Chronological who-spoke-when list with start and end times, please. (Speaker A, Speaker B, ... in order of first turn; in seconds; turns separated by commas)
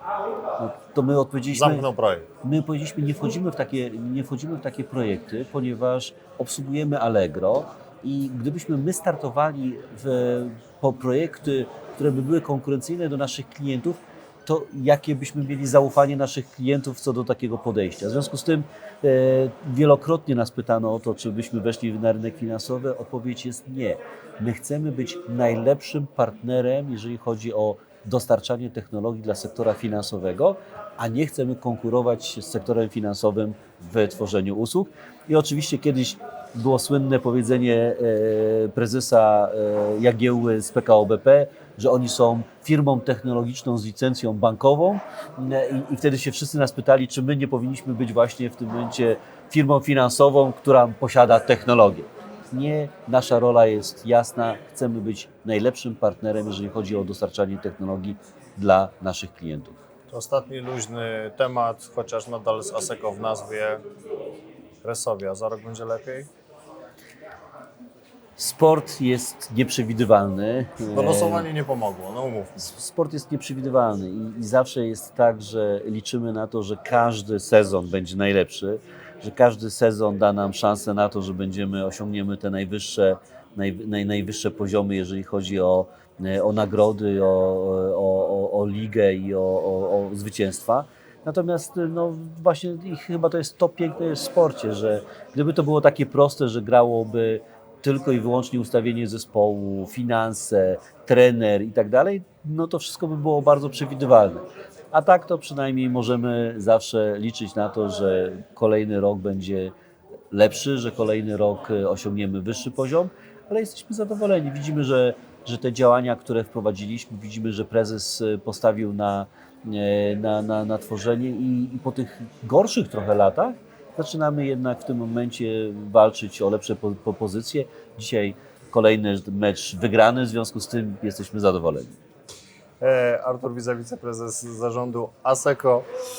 Speaker A: 0.6-1.9, Speaker B: 1.5-2.3, Speaker A: 2.4-59.8, Speaker B: 60.1-63.8, Speaker B: 64.8-66.3, Speaker A: 68.4-71.5, Speaker B: 70.9-72.5, Speaker A: 72.5-109.7, Speaker A: 110.3-132.0, Speaker B: 132.8-135.9